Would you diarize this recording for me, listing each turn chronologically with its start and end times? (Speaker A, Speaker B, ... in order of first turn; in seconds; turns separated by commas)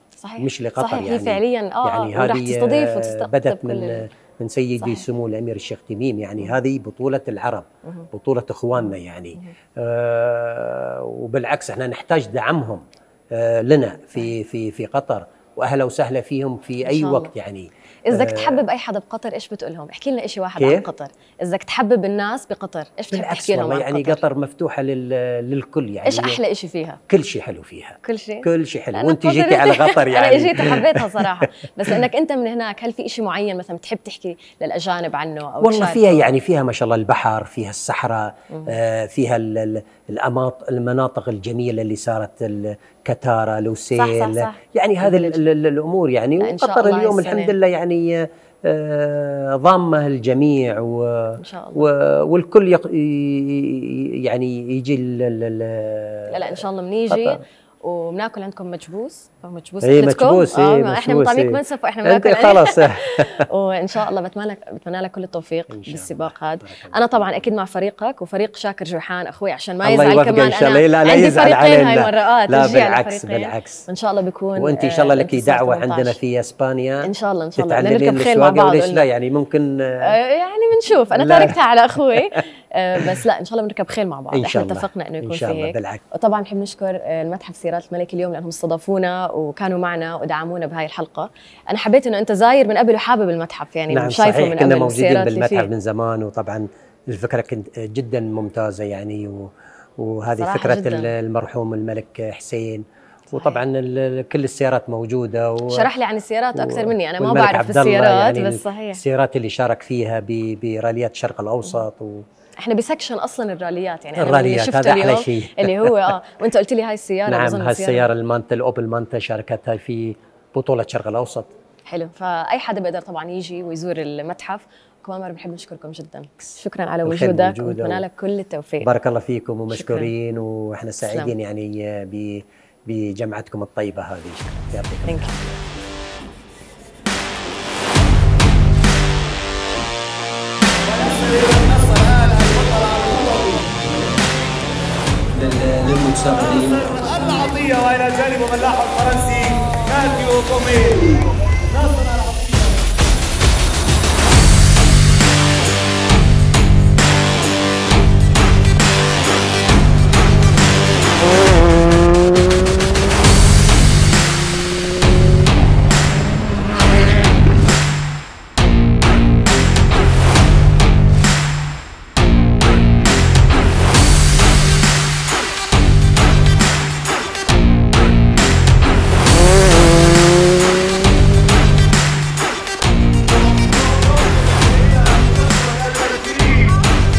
Speaker A: 0.2-4.1, Speaker B: 0.4-18.6, Speaker A: 16.8-17.3, Speaker A: 18.1-24.2, Speaker B: 20.6-20.9, Speaker B: 23.1-26.4, Speaker A: 26.0-27.0, Speaker B: 27.1-32.0, Speaker A: 28.0-36.3, Speaker B: 35.6-57.4, Speaker A: 38.5-38.8, Speaker A: 43.9-45.4, Speaker A: 46.4-47.5, Speaker A: 51.4-51.9, Speaker A: 56.3-76.2, Speaker B: 59.8-63.5, Speaker B: 65.7-67.4, Speaker B: 69.8-73.8, Speaker B: 74.6-80.1, Speaker A: 77.0-79.0, Speaker A: 80.0-95.7, Speaker B: 81.1-81.6, Speaker B: 82.1-82.4, Speaker B: 84.3-86.0, Speaker B: 93.9-105.9, Speaker A: 100.3-101.1, Speaker A: 103.3-103.6, Speaker A: 105.7-109.0, Speaker B: 106.5-112.2, Speaker A: 112.6-118.1, Speaker B: 114.2-116.1, Speaker B: 117.2-121.5, Speaker A: 121.8-128.9, Speaker B: 127.0-128.0, Speaker B: 128.8-135.7, Speaker A: 129.7-130.1, Speaker A: 131.1-131.3, Speaker A: 135.1-135.3, Speaker C: 140.9-143.7, Speaker B: 145.3-147.0, Speaker C: 146.5-152.7, Speaker C: 183.4-186.8